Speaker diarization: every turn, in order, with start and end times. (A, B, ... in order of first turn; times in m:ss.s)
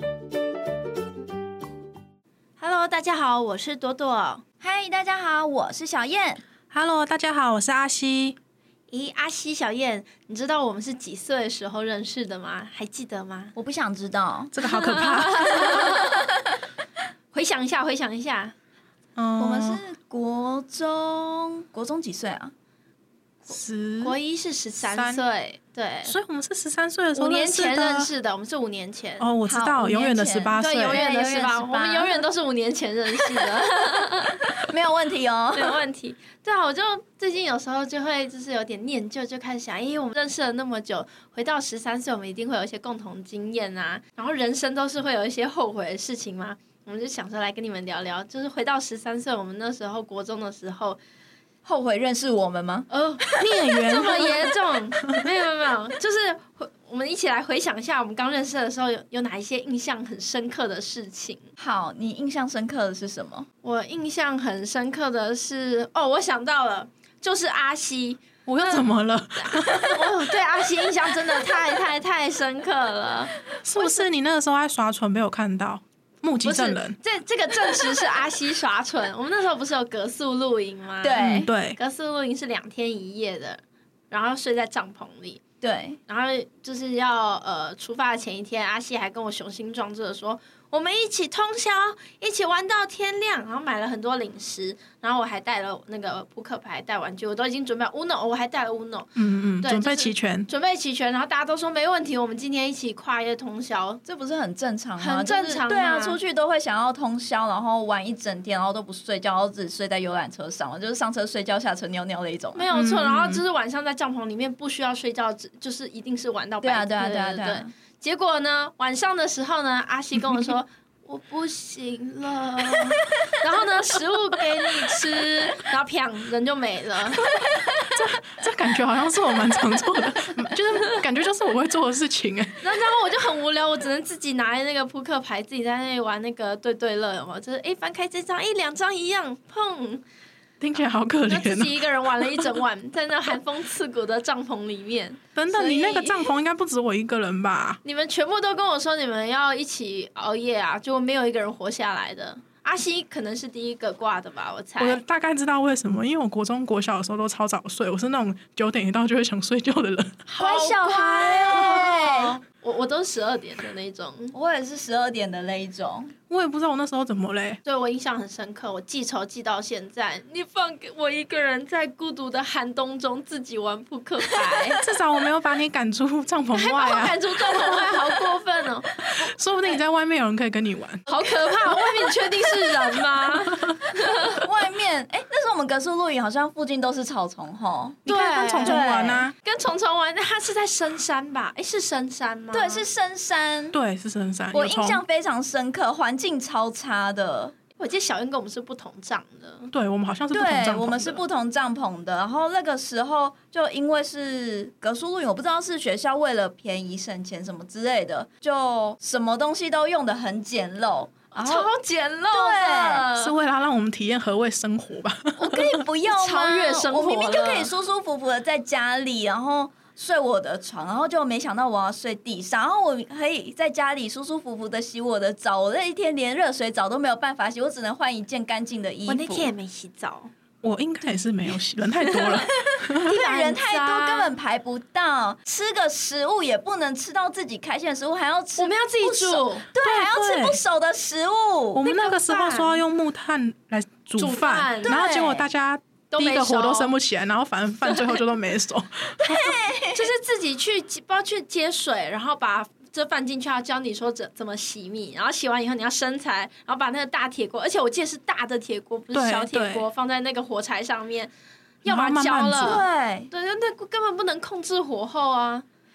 0:02.6-0:04.4 A
0:04.6-0:06.4 B
0:06.7-0:08.4 C
0:08.9-0:13.5 A
0:13.6-0:14.5 B
0:14.5-0:15.9 C
0:14.6-0:16.3 A
0:15.8-0:16.2 B
0:17.3-0:18.6 A
0:19.2-0:19.8 C
0:19.4-0:22.5 B
0:23.5-0:24.2 C
0:24.0-0:26.1 A
0:24.8-0:25.2 C
0:26.0-0:28.1 C
0:27.2-0:29.3 A
0:29.2-0:31.0 C
0:29.5-0:32.3 B
0:30.6-0:34.4 A
0:34.5-0:35.8 B
0:35.5-0:51.0 A
0:51.6-0:53.6 B
0:52.9-1:01.5 A
0:53.4-0:54.5 C
1:01.6-1:03.5 B
1:03.6-1:08.8 A
1:08.5-1:10.1 C
1:09.4-1:14.1 A
1:13.6-1:17.0 C
1:16.4-1:25.4 A
1:21.0-1:21.5 B
1:21.2-1:21.8 C
1:25.6-1:26.0 B
1:26.1-1:44.0 A
1:39.2-1:40.5 C
1:44.0-1:52.7 B
1:45.0-1:46.2 A
1:52.6-2:07.3 A
1:52.7-1:53.4 C
1:56.6-1:57.7 B
2:07.8-2:12.6 C
2:12.6-2:20.0 A
2:20.6-2:22.6 C
2:21.3-2:25.2 A
2:25.4-2:27.8 C
2:25.5-2:26.4 B
2:27.8-2:35.0 A
2:34.8-2:40.2 C
2:40.3-2:44.4 A
2:40.4-2:42.4 B
2:44.3-2:46.1 B
2:46.3-2:47.6 C
2:47.6-2:54.8 A
2:54.8-2:58.1 C
2:56.5-2:59.3 A
2:59.0-3:01.0 C
3:01.1-3:04.4 A
3:04.0-3:08.0 B
3:08.1-3:08.8 A
3:08.1-3:09.4 C
3:08.6-3:09.3 B
3:09.4-3:12.9 A
3:12.5-3:13.8 B
3:13.7-3:15.0 C
3:14.5-3:17.6 B
3:17.8-3:19.7 A
3:19.7-3:21.2 C
3:20.3-3:31.7 B
3:31.3-3:33.3 A
3:32.3-3:33.1 B
3:33.2-3:35.8 C
3:35.4-3:49.5 B
3:36.0-3:37.7 A
3:49.1-3:50.3 A
3:50.6-3:53.1 C
3:52.2-3:52.4 A
3:52.6-4:01.9 B
3:53.0-3:54.4 A
3:58.6-3:59.7 A
3:59.8-4:00.6 C
4:01.8-4:09.6 C
4:01.8-4:02.8 A
4:04.2-4:05.1 A
4:04.8-4:05.5 B
4:06.1-4:06.9 A
4:07.8-4:08.2 A
4:09.2-4:10.1 B
4:09.9-4:21.3 A
4:19.1-4:19.8 C
4:21.8-4:25.6 A
4:21.8-4:22.8 C
4:22.6-4:23.3 B